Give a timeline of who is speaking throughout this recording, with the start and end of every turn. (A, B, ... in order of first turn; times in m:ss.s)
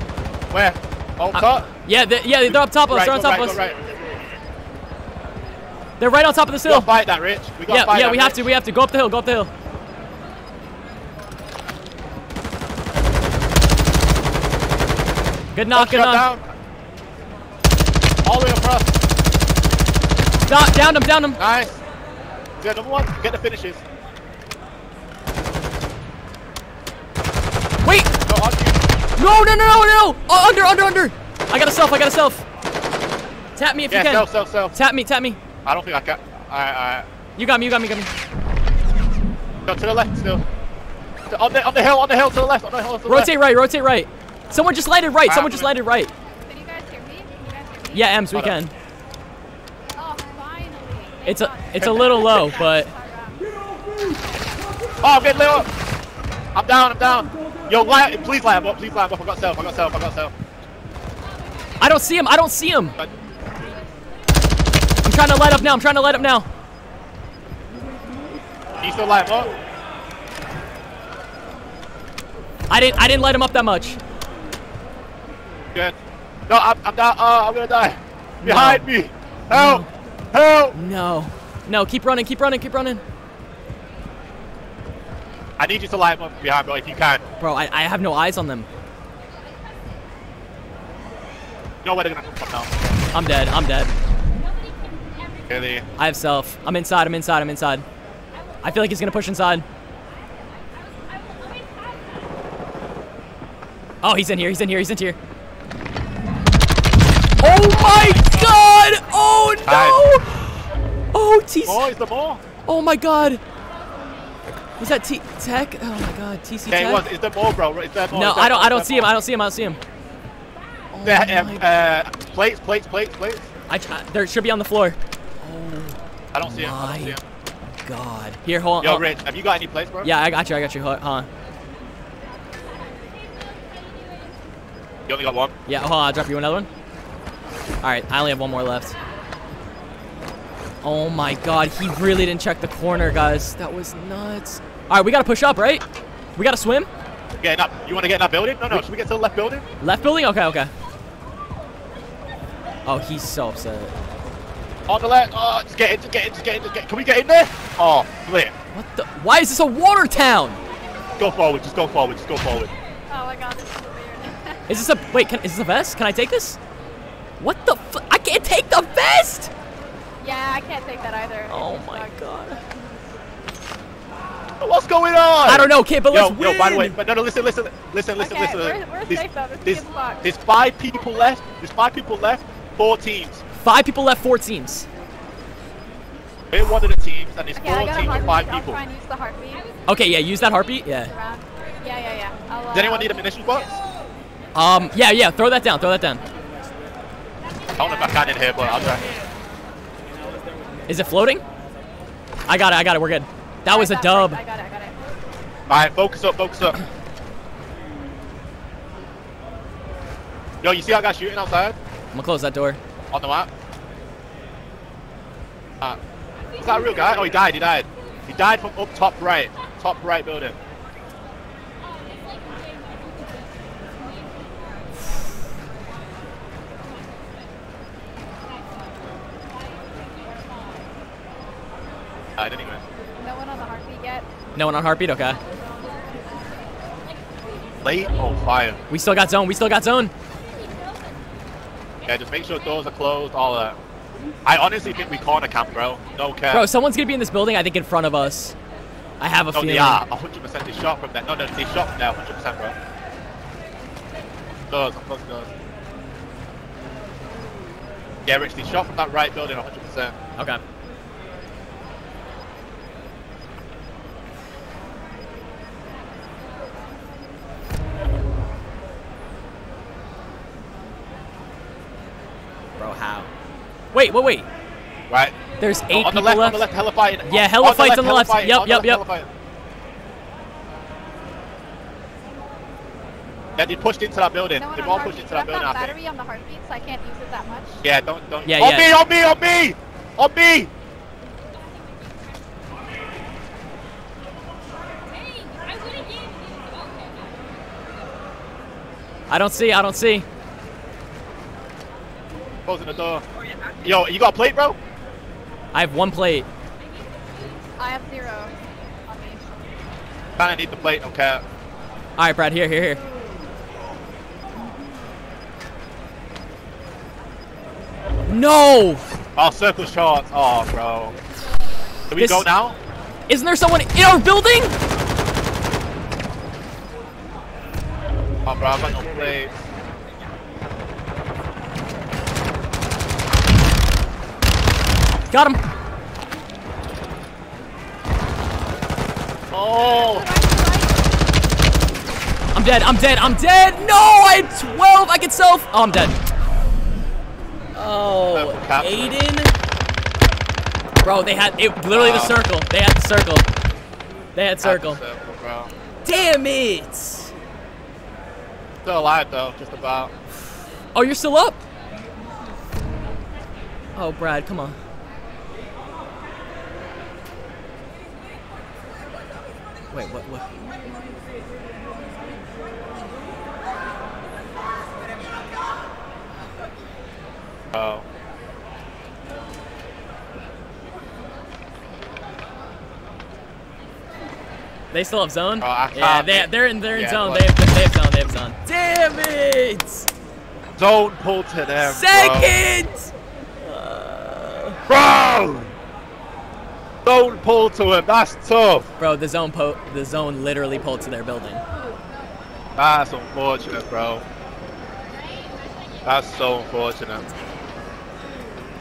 0:00.5-0:01.7 A
0:01.3-0:03.6 B
0:02.5-0:03.8 A
0:06.0-0:06.9 B
0:06.7-0:08.4 A
0:07.7-0:09.5 B
0:15.5-0:16.3 B
0:15.7-0:16.4 A
0:18.2-0:19.0 A
0:20.5-0:21.4 B
0:21.4-0:21.8 A
0:22.6-0:23.8 A
0:27.8-0:28.1 B
0:28.3-0:28.8 A
0:29.2-0:32.4 B
0:33.6-0:35.4 B
0:33.9-0:34.7 A
0:35.6-0:37.0 A
0:37.4-0:38.1 B
0:39.6-0:40.4 A
0:41.3-0:43.3 A
0:43.1-0:46.1 B
0:45.2-0:45.7 A
0:46.4-0:48.2 C
0:47.9-0:48.7 B
0:50.0-0:53.4 C
0:51.2-0:52.9 B
0:51.8-0:52.5 A
0:55.0-0:55.7 A
0:56.5-1:00.3 A
1:01.8-1:03.0 B
1:05.0-1:06.5 B
1:08.8-1:09.5 A
1:12.7-1:14.0 B
1:16.5-1:20.7 A
1:18.4-1:18.9 B
1:19.5-1:19.9 B
1:20.7-1:23.0 B
1:25.6-1:27.3 A
1:27.4-1:28.7 B
1:31.8-1:32.8 A
1:33.1-1:33.9 B
1:35.5-1:35.8 A
1:36.0-1:37.8 B
1:38.6-1:39.6 B
1:44.0-1:45.2 B
1:47.4-1:51.9 B
1:47.9-1:48.4 A
1:49.6-1:50.0 A
1:51.6-1:52.4 A
1:52.6-1:53.4 B
1:54.8-1:57.0 B
1:56.7-1:59.1 A
1:58.1-1:59.8 B
2:00.9-2:01.7 B
2:01.0-2:03.5 A
2:03.7-2:07.2 B
2:06.3-2:07.2 A
2:07.8-2:09.0 B
2:08.8-2:10.1 A
2:10.0-2:11.3 B
2:15.1-2:15.5 A
2:15.7-2:16.7 B
2:17.8-2:19.0 B
2:20.8-2:25.8 B
2:26.4-2:26.9 B
2:27.4-2:29.6 A
2:29.8-2:30.7 B
2:32.8-2:33.9 B
2:34.9-2:38.5 A
2:38.7-2:40.6 B
2:41.2-2:42.7 A
2:43.1-2:44.6 C
2:44.7-2:46.6 B
2:47.4-2:49.5 B
2:50.2-2:52.2 C
2:51.5-2:52.6 B
2:54.6-3:03.4 A
2:55.4-2:57.0 B
2:58.2-3:00.2 C
3:03.6-3:04.9 B
3:06.5-3:08.8 A
3:07.6-3:09.6 C
3:09.9-3:11.1 B
3:11.1-3:13.2 C
3:12.7-3:13.8 A
3:14.5-3:16.2 B
3:17.8-3:19.0 A
3:20.9-3:21.4 B
3:22.5-3:24.4 B
3:23.6-3:25.0 C
3:25.7-3:26.8 A
3:30.6-3:31.8 A
3:32.1-3:32.8 B
3:33.1-3:33.5 A
3:36.6-3:40.6 A
3:52.4-3:52.8 A
3:53.2-3:54.2 C
3:54.5-3:55.4 B
3:57.8-3:58.8 A
3:58.9-4:00.1 B
4:02.0-4:03.8 A
4:04.4-4:06.6 A
4:06.5-4:08.5 B
4:09.2-4:10.0 B
4:09.5-4:12.8 A
4:14.7-4:15.5 A
4:18.2-4:20.2 A
4:32.8-4:33.3 B
4:33.9-4:34.4 B
4:35.1-4:35.3 A
4:35.6-4:36.6 B
4:35.9-4:39.3 A
4:37.2-4:39.0 B
4:43.6-4:45.9 A
4:44.5-4:47.8 C
4:47.8-4:50.7 A
4:48.5-4:48.9 B
4:59.3-5:00.2 B
5:02.6-5:03.2 A
5:03.8-5:04.8 A
5:05.7-5:06.5 B
5:07.8-5:08.5 C
5:09.1-5:09.6 C
5:10.4-5:11.4 A
5:12.2-5:13.0 B
5:18.3-5:19.0 B
5:19.4-5:21.2 A
5:22.1-5:22.8 A
5:22.1-5:22.5 B
5:23.3-5:24.7 B
5:28.4-5:29.5 A
5:35.3-5:35.6 B
5:39.5-5:40.2 A
5:39.7-5:41.1 C
5:42.5-5:46.2 B
5:47.7-5:49.5 B
5:48.3-5:49.2 A
5:51.0-5:53.4 B
5:51.9-5:52.4 A
5:54.3-5:55.0 B
5:54.6-5:55.7 A
5:56.0-5:57.3 B
5:58.8-6:00.1 A
6:00.9-6:01.6 B
6:03.9-6:04.8 B
6:09.9-6:10.4 B
6:17.7-6:18.0 A
6:24.9-6:30.1 B
6:25.6-6:27.5 A
6:30.7-6:32.6 A
6:31.8-6:33.1 B
6:33.6-6:34.8 B
6:34.9-6:35.7 A
6:37.0-6:38.9 A
6:39.0-6:41.6 B
6:42.8-6:44.2 A
6:46.0-6:47.3 A